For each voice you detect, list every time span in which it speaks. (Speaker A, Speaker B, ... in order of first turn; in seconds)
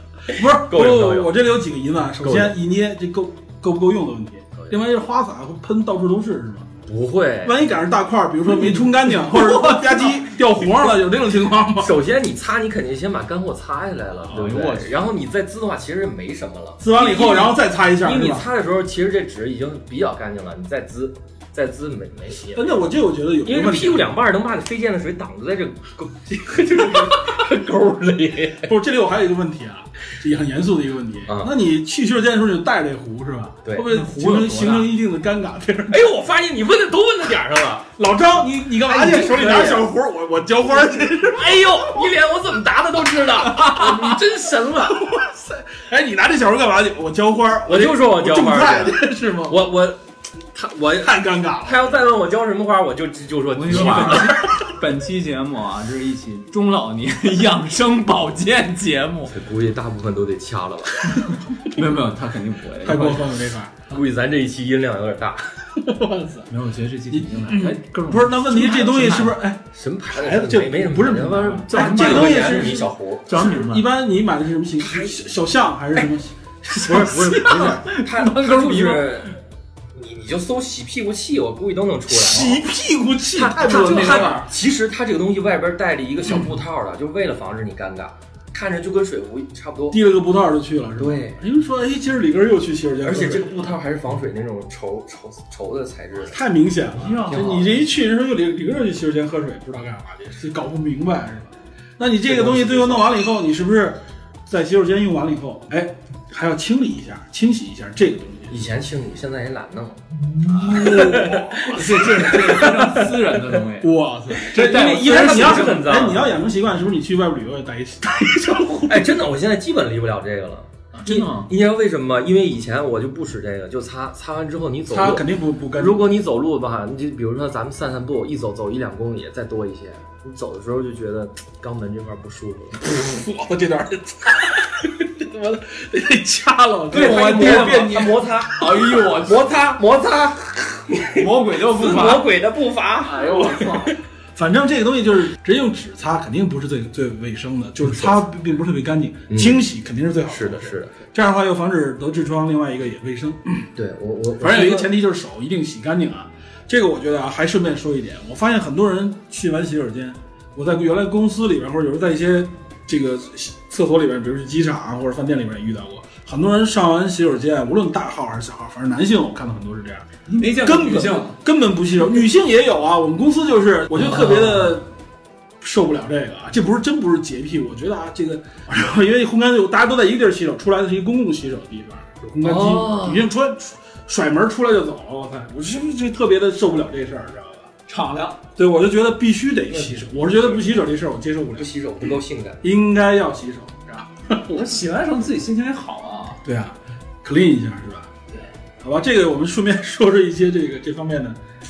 Speaker A: 0.3-6.7, 7.4-12.0, 14.3-14.8, 16.8-18.5, 22.5-24.1, 28.6-36.1, 38.0-41.9, 43.8-44.1, 44.9-49.6, 50.9-51.9, 53.7-54.4, 62.8-63.9, 65.8-66.5, 67.1-77.8, 82.1-84.5, 89.9-93.7, 96.2-108.7, 110.3-113.1, 113.8-119.1, 124.9-126.1, 132.8-138.1, 144.3-153.7, 154.4-174.9, 175.6-187.7, 188.6-191.7, 192.6-194.7, 196.4-198.1, 198.8-201.4
Speaker B: 0.4-1.4, 2.2-2.5, 6.9-7.6, 11.8-22.9, 23.4-28.7, 31.3-31.5, 35.9-37.9, 38.8-39.9, 41.3-45.3, 47.7-50.0, 50.5-54.5, 59.3-61.2, 63.9-65.6, 69.7-73.3, 74.8-75.2, 76.8-79.3, 79.9-82.6, 83.3-90.0, 91.0-91.4, 93.0-96.4, 97.3-97.7, 102.3-103.1, 108.5-110.0, 110.6-112.9, 114.5-116.2, 118.9-132.9, 136.9-143.7, 147.9-148.2, 149.3-149.6, 150.3-150.9, 153.8-154.9, 182.4-183.3, 189.7-190.8, 191.6-192.6
Speaker C: 8.5-10.2, 14.3-14.9, 33.9-34.9, 53.5-59.3, 61.6-63.3, 66.5-69.4, 71.6-73.9, 76.8-79.2, 83.6-84.5, 96.9-97.6, 110.4-115.7, 118.4-118.9, 120.9-121.5, 136.9-139.5, 141.1-142.3, 143.0-143.9, 170.3-171.4, 187.9-188.4, 194.5-196.4